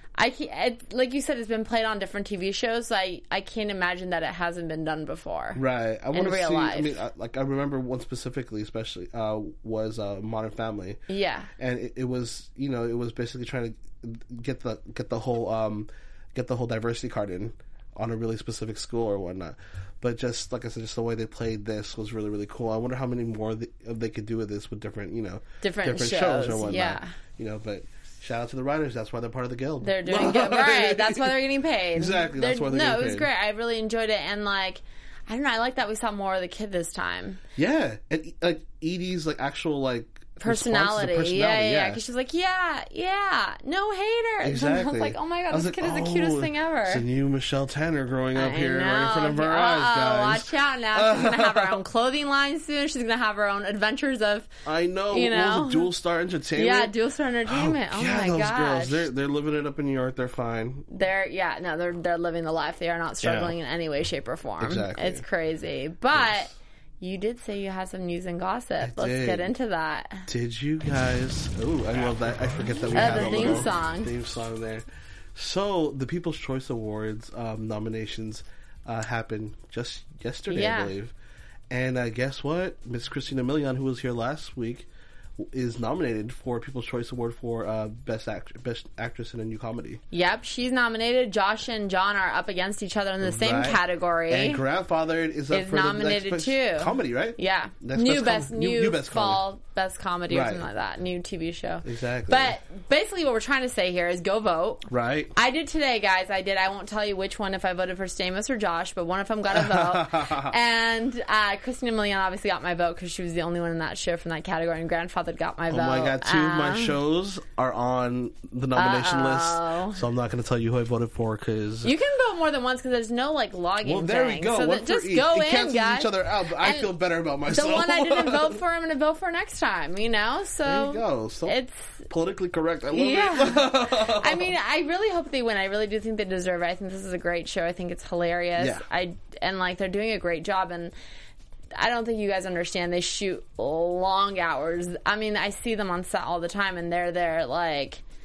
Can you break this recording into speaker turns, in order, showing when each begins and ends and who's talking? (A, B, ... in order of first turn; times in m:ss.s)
0:00.2-0:07.0 A
0:05.5-0:11.0 B
0:11.1-0:11.5 A
0:11.6-0:31.4 B
0:25.6-0:27.1 A
0:29.8-0:37.4 A
0:31.9-0:33.3 B
0:37.6-0:42.0 B
0:40.4-0:47.0 A
0:44.4-0:51.8 B
0:48.3-0:54.5 A
0:54.6-0:56.9 B
0:55.1-0:55.9 A
0:56.6-0:59.1 A
0:57.4-1:00.8 B
1:00.9-1:10.2 A
1:03.2-1:03.5 B
1:04.6-1:05.2 B
1:08.8-1:09.5 B
1:10.3-1:21.1 B
1:12.9-1:14.1 A
1:20.5-1:20.9 A
1:21.7-1:24.9 B
1:25.4-1:30.0 B
1:30.1-1:34.6 A
1:33.2-1:39.4 B
1:35.5-1:57.0 A
1:40.3-1:40.6 B
1:41.8-1:42.6 B
1:44.9-1:45.3 B
1:49.5-1:50.5 B
1:55.7-2:01.9 B
1:58.7-2:00.0 A
2:01.8-2:06.9 A
2:03.8-2:08.6 B
2:07.5-2:12.0 A
2:10.6-2:11.6 B
2:12.1-2:14.5 B
2:12.9-2:20.9 A
2:18.6-2:18.8 B
2:21.7-2:28.0 A